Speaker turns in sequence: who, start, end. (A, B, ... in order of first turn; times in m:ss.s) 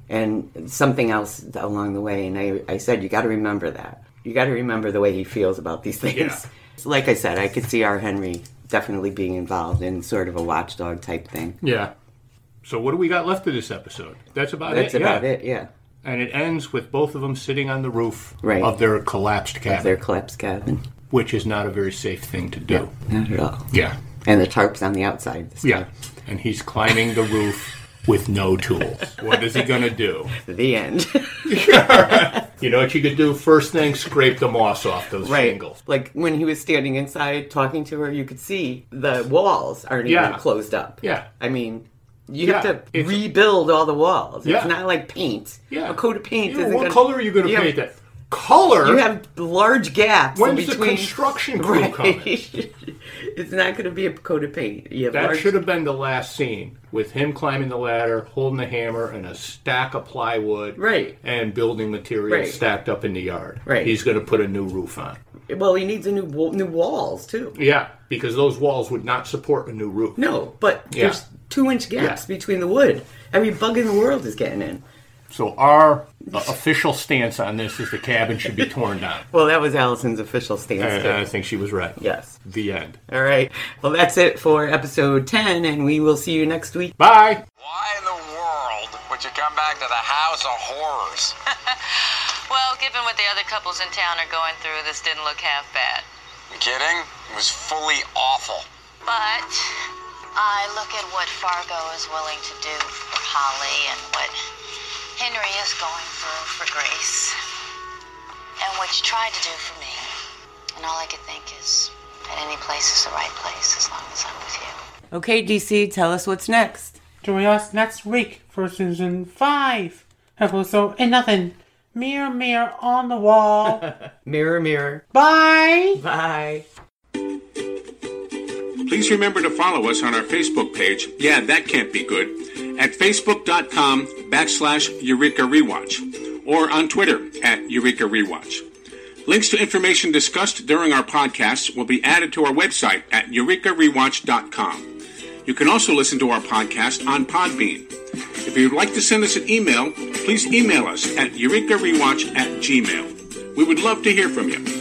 0:00.1-0:11.6 A
0:06.1-0:06.4 B
0:11.6-0:11.9 B
0:12.6-0:15.3 B
0:14.7-0:15.7 A
0:16.0-0:20.0 B
0:18.4-0:18.7 A
0:19.7-0:20.8 A
0:21.1-0:22.9 B
0:22.7-0:23.7 A
0:23.7-0:24.0 B
0:24.2-0:25.9 A
0:25.6-0:30.3 B
0:30.3-0:32.4 A
0:31.4-0:35.8 B
0:35.2-0:47.8 A
0:40.1-0:40.4 B
0:41.0-0:41.3 B
0:42.4-0:43.3 B
0:44.4-0:44.7 B
0:45.7-0:49.0 B
0:48.8-0:55.5 A
0:50.3-0:52.3 B
0:55.1-1:05.2 B
1:00.8-1:01.2 A
1:02.3-1:02.6 A
1:03.7-1:04.0 A
1:05.5-1:07.6 A
1:07.5-1:10.2 B
1:10.2-1:14.8 A
1:10.9-1:11.2 B
1:15.3-1:19.3 B
1:19.3-1:21.2 A
1:20.8-1:23.0 B
1:22.0-1:22.4 A
1:23.1-1:27.0 A
1:27.0-1:27.4 B
1:28.7-1:29.2 C
1:29.8-1:31.3 C
1:32.5-1:36.1 D
1:39.1-1:39.7 D
1:40.4-1:44.4 D
1:45.2-1:47.4 D
1:48.6-1:50.1 D
1:50.8-1:54.8 D
1:55.1-1:57.0 A
1:57.2-2:03.9 E
2:04.2-2:05.0 A
2:05.1-2:06.0 E
2:06.0-2:06.6 A
2:08.9-2:18.6 F
2:19.3-2:24.9 F
2:25.5-2:27.9 F
2:28.4-2:34.7 F